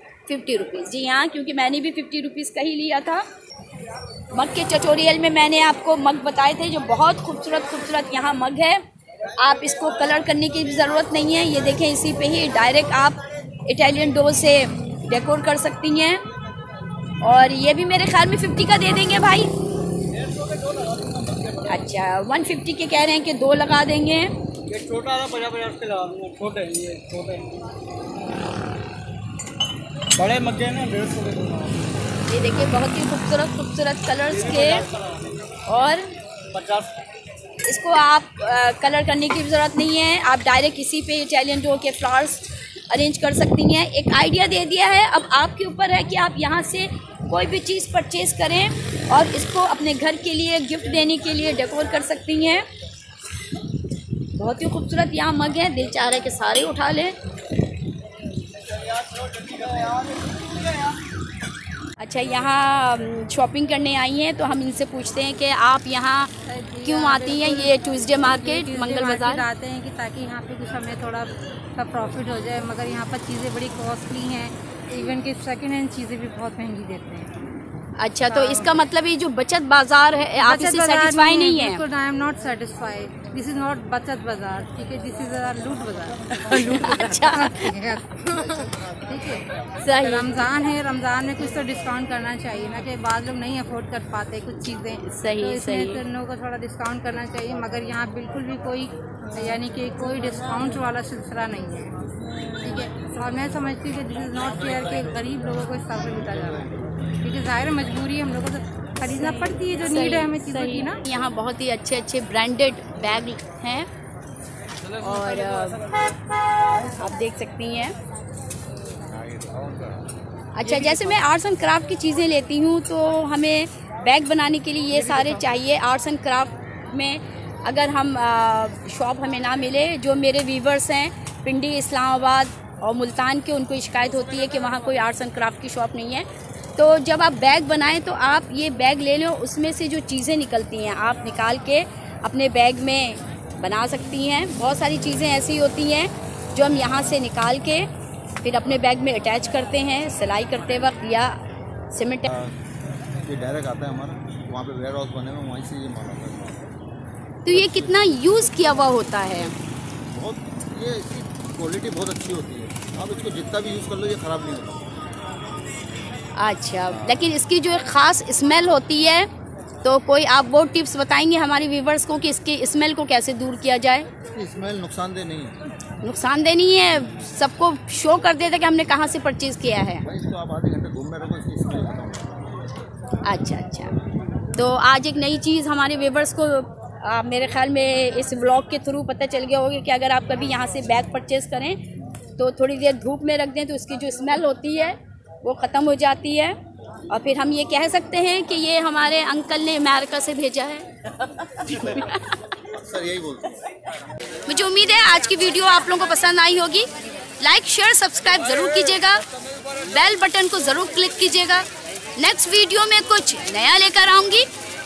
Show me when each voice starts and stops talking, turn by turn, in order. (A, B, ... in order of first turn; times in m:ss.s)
0:00.3-0:03.2 A
0:04.3-0:08.8 A
0:09.4-0:16.2 A
0:17.2-0:19.5 A
0:21.6-0:24.3 A
0:24.7-0:27.4 B
0:30.2-0:31.7 B
0:32.3-0:34.9 A
0:34.3-0:35.0 B
0:35.7-0:36.0 A
0:36.5-0:36.9 B
0:37.7-0:52.7 A
0:54.4-0:57.2 A
1:02.0-1:06.3 A
1:06.5-1:17.3 C
1:06.8-1:09.4 A
1:18.0-1:21.8 A
1:18.3-1:18.8 C
1:20.4-1:42.0 C
1:26.4-1:27.8 A
1:29.8-1:30.4 A
1:35.0-1:36.0 A
1:42.6-1:51.0 C
1:49.2-1:53.9 A
1:55.0-1:55.8 A
1:57.0-1:58.0 A
2:00.6-2:27.9 A
2:28.4-2:31.4 A
2:31.9-2:32.3 A
2:32.3-2:32.6 D
2:33.2-2:36.7 D
2:37.4-2:39.5 A
2:37.5-2:38.9 D
2:40.1-2:44.9 D
2:46.4-2:49.3 A
2:49.8-2:54.1 A
2:54.3-2:55.6 D
2:56.0-3:00.0 A
3:00.0-3:02.4 D
3:03.3-3:03.9 A
3:04.6-3:11.8 A
3:12.4-3:16.6 A
3:17.1-3:20.9 A
3:21.6-3:22.4 A
3:22.7-3:23.6 D
3:24.5-3:26.9 A
3:27.4-3:29.2 A
3:29.8-3:31.6 A
3:32.2-3:34.5 A